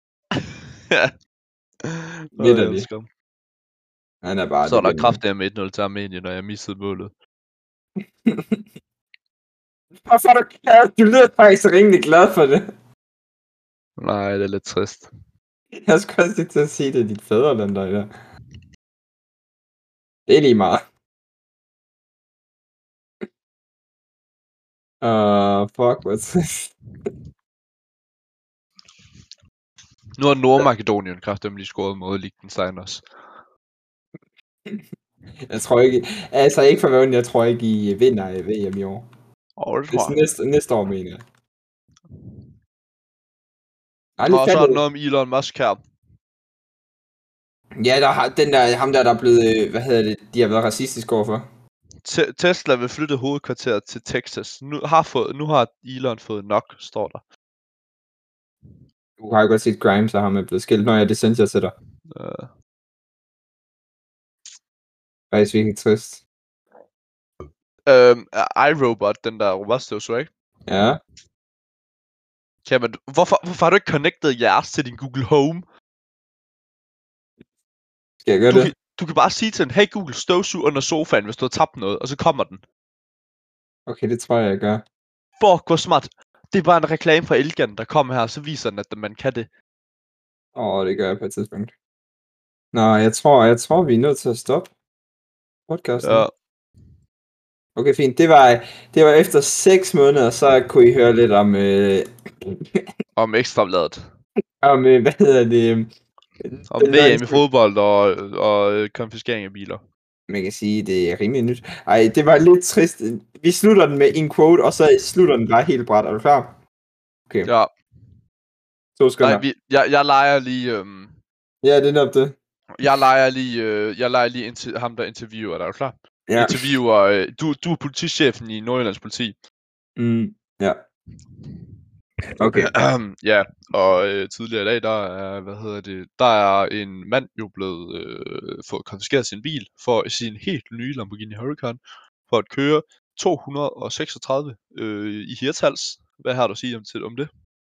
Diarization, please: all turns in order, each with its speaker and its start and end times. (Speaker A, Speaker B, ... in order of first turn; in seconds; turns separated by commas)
Speaker A: 0.3-1.1, Speaker A: 1.8-3.1, Speaker B: 2.4-2.9, Speaker B: 4.2-5.2, Speaker A: 4.7-7.1, Speaker B: 8.2-8.6, Speaker B: 10.1-12.7, Speaker A: 14.0-15.1, Speaker B: 15.8-18.1, Speaker B: 20.3-20.8, Speaker B: 25.0-26.7, Speaker A: 30.2-33.0, Speaker B: 35.5-39.0, Speaker A: 39.6-40.2, Speaker B: 39.9-41.2, Speaker B: 44.2-44.8, Speaker A: 44.3-45.8, Speaker B: 47.8-51.5, Speaker A: 52.0-57.2, Speaker B: 59.2-61.7, Speaker A: 62.1-62.5, Speaker B: 65.3-66.2, Speaker A: 67.8-70.3, Speaker B: 70.7-71.0, Speaker A: 72.6-75.7, Speaker B: 78.2-78.7, Speaker A: 78.5-82.6, Speaker B: 83.9-84.8, Speaker A: 85.4-89.5, Speaker B: 90.5-91.7, Speaker B: 92.7-94.7, Speaker B: 95.7-96.2, Speaker A: 96.0-96.3, Speaker B: 97.8-102.8, Speaker A: 103.2-104.0, Speaker B: 104.6-105.9, Speaker B: 106.4-107.4, Speaker A: 106.7-109.8, Speaker B: 110.3-116.5, Speaker A: 117.4-117.7, Speaker B: 119.0-119.4, Speaker A: 119.2-121.2, Speaker B: 121.6-122.3, Speaker A: 122.8-129.3, Speaker B: 126.3-126.8, Speaker B: 130.0-130.8, Speaker B: 132.4-132.7, Speaker A: 132.4-147.3